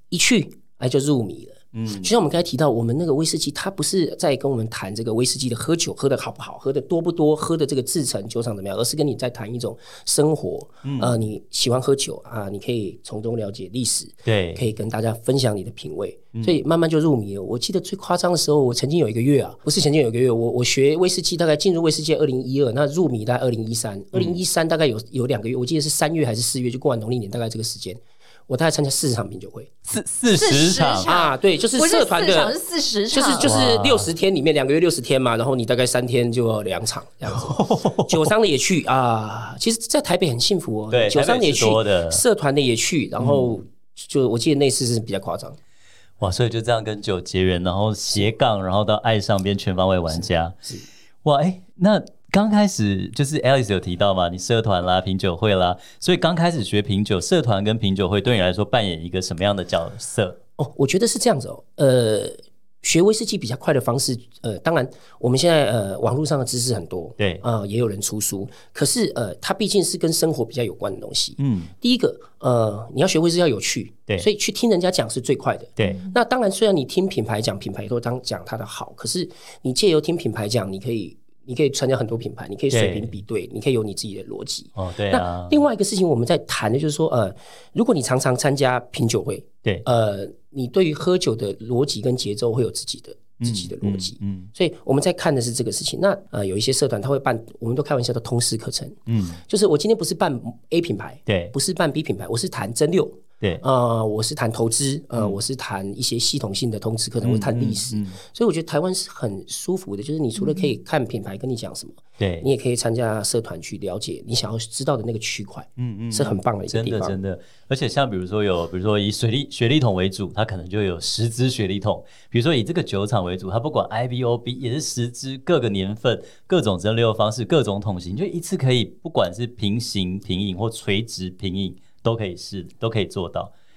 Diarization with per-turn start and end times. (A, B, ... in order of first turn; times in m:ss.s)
0:00.1-0:29.7 A
0:01.7-0:02.1 B
0:10.8-0:11.2 B
0:14.2-0:14.6 B
0:29.9-0:31.1 B
0:30.3-0:33.5 C
0:31.1-0:32.6 A
0:33.1-0:45.6 A
0:33.4-0:34.1 B
0:37.4-0:38.3 B
0:40.9-0:42.2 B
0:43.2-0:43.5 B
0:46.2-0:50.6 B
0:51.2-1:00.4 B
1:00.6-1:39.0 A
1:07.2-1:07.4 B
1:11.4-1:11.7 B
1:15.8-1:16.0 B
1:22.7-1:23.1 B
1:24.8-1:25.6 B
1:33.4-1:34.5 B
1:39.1-1:39.4 B
1:39.5-1:57.2 A
1:41.3-1:41.5 B
1:47.2-1:48.2 B
1:52.2-1:52.5 B
1:55.8-2:13.5 B